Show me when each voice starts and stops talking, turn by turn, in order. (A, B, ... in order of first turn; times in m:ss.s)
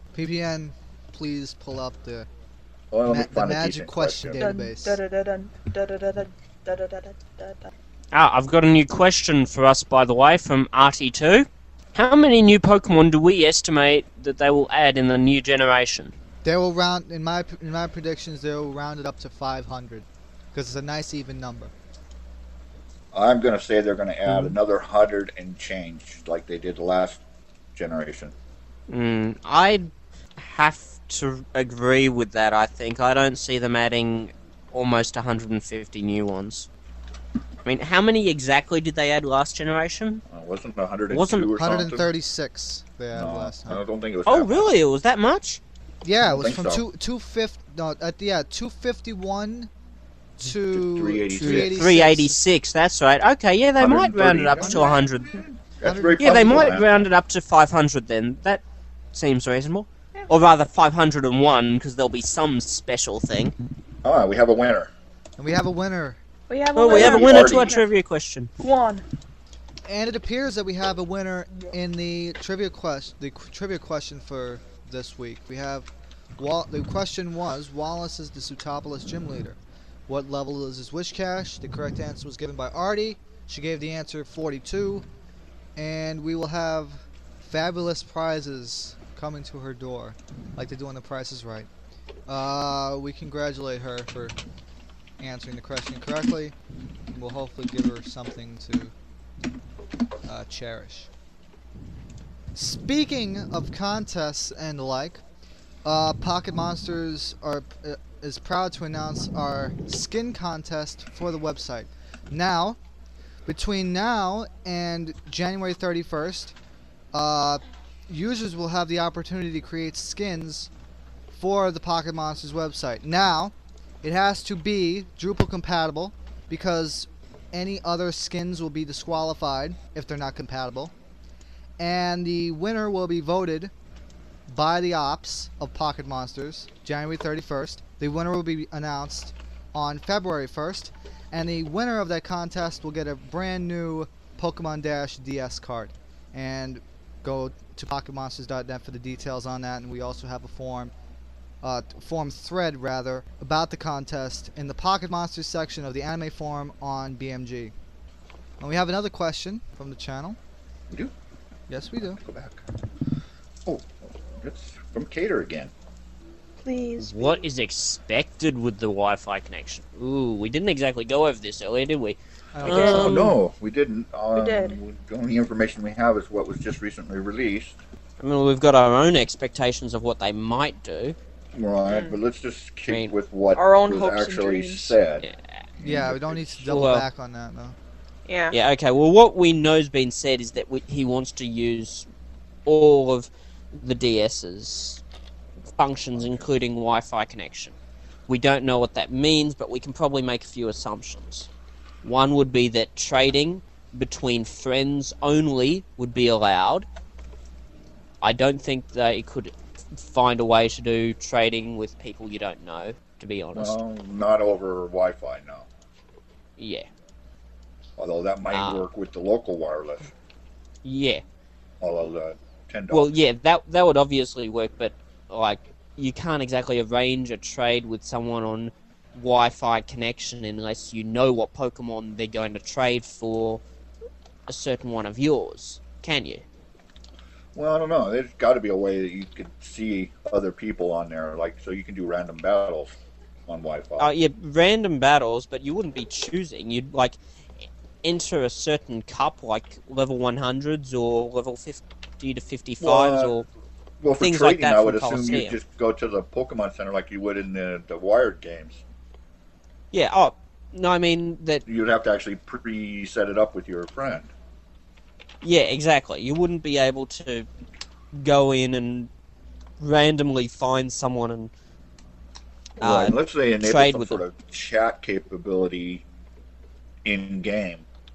0:00.1-0:02.3 A
0:02.9-0:04.4 B
0:03.1-0:05.0 A
0:04.4-0:07.7 C
0:08.1-0:16.1 D
0:16.4-0:21.7 A
0:23.1-0:27.2 B
0:27.7-0:28.3 B
0:28.9-0:36.7 D
0:37.6-0:40.2 D
0:40.3-0:42.1 B
0:41.1-0:41.5 D
0:41.6-0:43.8 A
0:43.1-0:44.7 B
0:44.2-0:45.6 D
0:46.0-0:49.7 A
0:46.2-0:46.8 B
0:50.4-0:52.4 A
0:50.7-0:51.8 B
0:51.3-0:55.4 D
0:53.8-0:57.0 B
0:54.6-0:54.8 A
0:55.8-0:56.7 A
0:56.2-1:03.5 D
1:04.0-1:04.9 B
1:05.4-1:06.2 A
1:06.5-1:07.8 C
1:06.7-1:08.5 D
1:06.9-1:07.8 B
1:08.6-1:09.0 C
1:09.8-1:25.0 A
1:25.8-1:31.7 A
1:32.3-1:34.4 A
1:35.2-1:36.5 A
1:37.1-1:38.9 A
1:40.2-1:41.1 A
1:42.5-1:45.2 A
1:45.8-1:52.8 A
1:53.4-1:56.5 A
1:57.1-2:00.7 A
2:01.3-2:10.9 A
2:11.8-2:13.7 A
2:14.5-2:30.9 A
2:31.6-2:37.7 A
2:38.6-2:40.4 A
2:41.7-2:42.2 A
2:42.1-2:42.6 B
2:43.6-2:45.7 B
2:46.6-2:47.4 C
2:47.0-2:53.4 D
2:52.5-2:53.3 A
2:52.6-2:57.8 B
2:54.3-2:54.8 C
2:58.2-3:01.2 D
3:01.5-3:05.2 B
3:01.8-3:02.2 C
3:02.9-3:03.1 D
3:03.5-3:05.0 C
3:05.8-3:06.7 B
3:05.8-3:07.8 A
3:06.7-3:07.0 D
3:08.2-3:08.6 C
3:08.5-3:12.1 D
3:12.6-3:15.0 D
3:15.8-3:17.7 D
3:16.1-3:16.5 B
3:18.3-3:21.5 D
3:22.0-3:26.9 D
3:28.2-3:33.8 D
3:33.5-3:35.7 B
3:36.6-3:36.9 D
3:38.0-3:40.1 B
3:38.5-3:38.8 D
3:40.8-3:41.2 D
3:41.8-3:43.1 B
3:42.9-3:53.6 D
3:54.5-3:56.4 D
3:57.5-4:02.9 B
4:03.5-4:04.1 B
4:04.0-4:07.2 D
4:08.0-4:13.5 D
4:12.8-4:13.3 B
4:14.0-4:18.8 B
4:14.2-4:15.6 D
4:19.9-4:21.6 D
4:21.6-4:24.3 B
4:25.4-4:27.5 D
4:28.1-4:29.1 D
4:29.8-4:31.5 D
4:32.8-4:34.2 D
4:32.8-4:36.0 B
4:37.0-4:37.8 B